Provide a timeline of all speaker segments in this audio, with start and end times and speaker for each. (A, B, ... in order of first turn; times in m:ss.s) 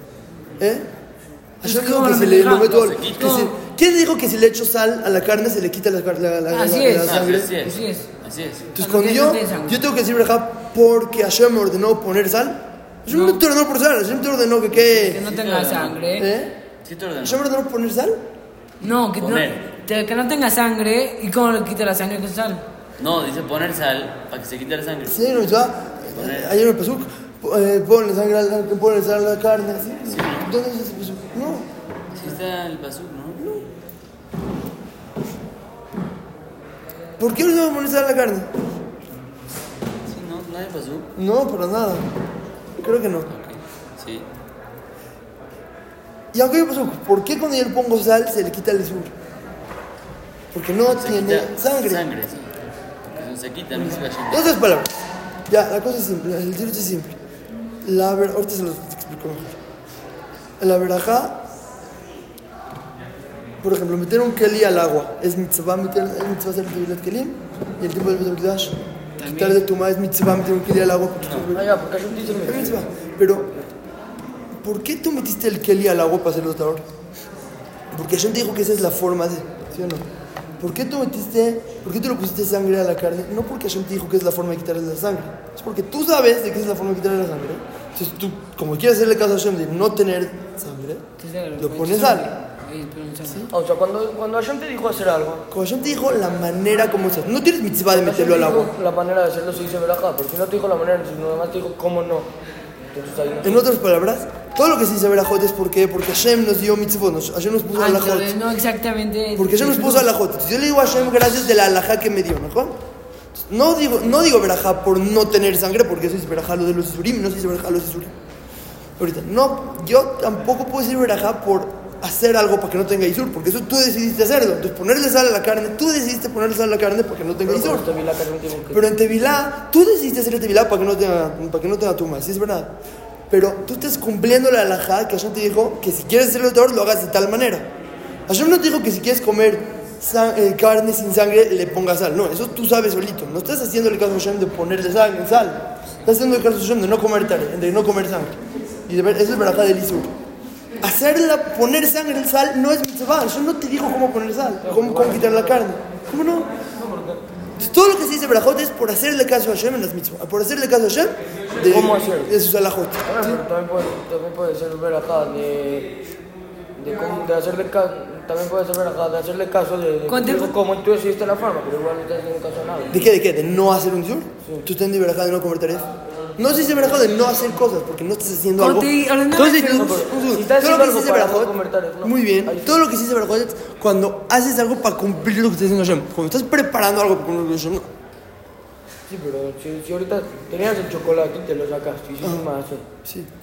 0:00.6-0:00.9 A
0:01.6-0:07.6 A
0:01.6-0:03.5 B
0:02.6-0:03.5 C
0:06.5-0:08.1 B
0:07.0-0:08.7 C
0:08.7-0:15.2 A
0:08.8-0:09.8 B
0:13.1-0:13.4 B
0:15.0-0:16.3 B
0:15.1-0:16.0 C
0:16.2-0:16.6 A
0:16.8-0:17.4 C
0:17.2-0:18.2 A
0:18.8-0:22.6 B
0:19.2-0:19.6 C
0:23.0-0:25.3 C
0:25.1-0:31.7 A
0:26.1-0:26.6 C
0:30.1-0:30.5 C
0:32.1-0:33.4 C
0:33.4-0:33.6 A
0:37.2-0:38.5 A
0:40.1-0:41.1 C
0:41.2-0:42.0 A
0:42.8-0:43.3 A
0:43.3-0:44.3 C
0:46.3-0:49.1 A
0:50.5-0:52.0 A
0:50.9-0:52.5 C
0:53.1-0:54.5 C
0:53.7-0:54.9 A
0:55.5-0:57.2 A
0:57.8-0:59.6 A
1:00.6-1:01.4 A
1:03.6-1:11.7 A
1:09.2-1:09.6 B
1:11.2-1:11.5 C
1:11.5-1:12.8 D
1:12.4-1:13.5 A
1:14.5-1:16.8 A
1:17.9-1:20.1 A
1:20.6-1:31.0 A
1:31.2-1:33.5 B
1:31.6-1:32.3 A
1:33.2-1:33.5 A
1:33.5-1:35.5 D
1:35.5-1:38.7 A
1:37.9-1:42.3 D
1:42.9-1:43.6 D
1:43.4-1:48.3 A
1:47.7-1:50.1 B
1:49.4-1:52.8 A
1:53.3-1:58.1 A
1:59.0-2:07.9 A
2:07.4-2:08.8 D
2:08.7-2:12.8 A
2:13.3-2:17.7 A
2:18.3-2:30.1 A
2:30.8-2:36.5 A
2:34.6-2:35.6 D
2:36.7-2:37.2 D
2:37.6-2:43.4 A
2:41.6-2:42.3 D
2:43.0-2:45.9 D
2:46.8-2:53.0 D
2:50.1-2:50.5 B
2:52.9-3:07.9 A
2:58.6-3:00.0 B
2:59.7-3:02.8 D
3:09.1-3:12.9 D
3:12.2-3:12.5 A
3:13.0-3:13.3 A